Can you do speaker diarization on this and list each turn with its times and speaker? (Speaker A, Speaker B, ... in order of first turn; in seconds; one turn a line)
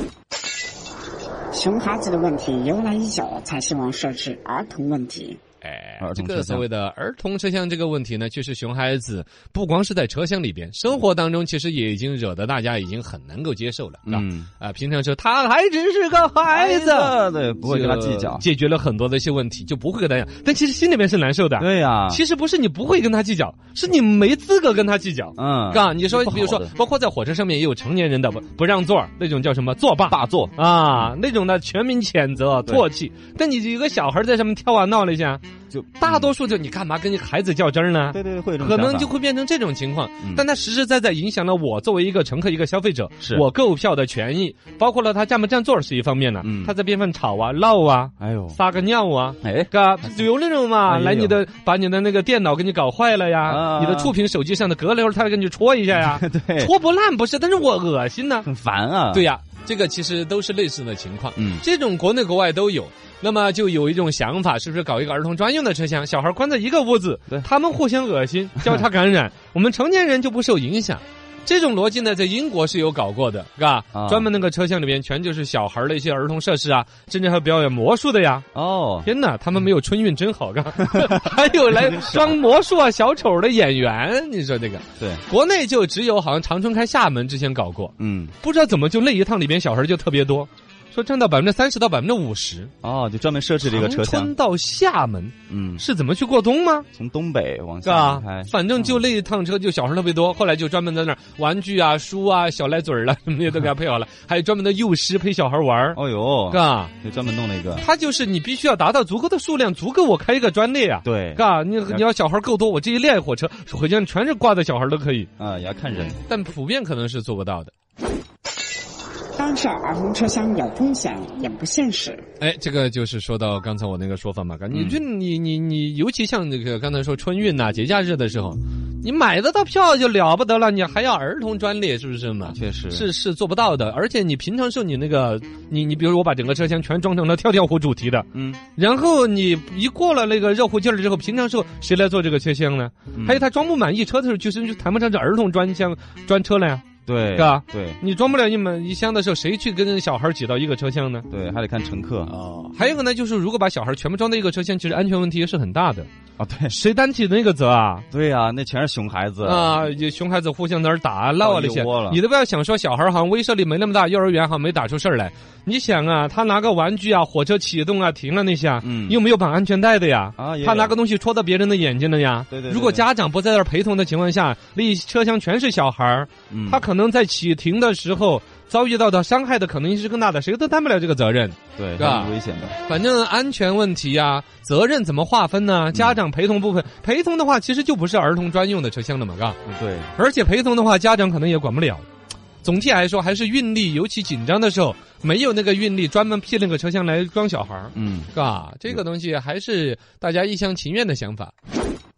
Speaker A: 1.5-5.4
Speaker B: 5.6-35.4
Speaker C: 6.0-6.7
Speaker C: 14.1-14.5
Speaker C: 16.5-18.5
Speaker C: 21.6-22.2
Speaker C: 25.4-26.8
Speaker C: 30.1-31.1
Speaker C: 35.7-36.3
Speaker B: 36.0-58.5
Speaker C: 38.1-39.1
Speaker C: 46.4-46.7
Speaker C: 48.2-48.6
Speaker C: 49.4-50.3
Speaker C: 50.9-51.4
Speaker C: 53.5-54.1
Speaker C: 56.0-56.7
Speaker C: 58.5-59.3
Speaker B: 59.1-78.5
Speaker C: 61.4-61.6
Speaker C: 73.9-74.3
Speaker C: 78.5-79.1
Speaker B: 79.0-92.7
Speaker C: 81.0-81.2
Speaker C: 81.7-82.3
Speaker C: 85.0-85.2
Speaker C: 88.0-88.3
Speaker C: 92.8-94.3
Speaker B: 93.6-96.9
Speaker C: 95.5-95.8
Speaker C: 96.9-99.1
Speaker B: 97.8-106.0
Speaker C: 106.0-107.9
Speaker B: 106.5-106.9
Speaker B: 107.8-115.3
Speaker C: 111.0-112.0
Speaker C: 115.4-116.2
Speaker B: 116.3-117.7
Speaker A: 119.4-122.2
Speaker B: 122.4-151.3
Speaker C: 124.7-125.0
Speaker C: 132.5-133.1
Speaker C: 138.3-138.6
Speaker C: 143.1-143.4
Speaker C: 147.1-148.0
Speaker C: 151.3-152.3
Speaker B: 152.3-156.1
Speaker C: 156.4-156.8
Speaker B: 156.7-158.1
Speaker C: 158.1-159.8
Speaker B: 159.4-182.3
Speaker C: 161.4-162.2
Speaker C: 168.8-169.2
Speaker C: 170.4-171.0
Speaker C: 172.5-173.1
Speaker C: 176.5-176.9
Speaker C: 181.8-182.8
Speaker B: 182.8-189.6
Speaker C: 189.7-190.1
Speaker B: 190.2-192.1
Speaker B: 192.6-201.5
Speaker C: 197.9-198.3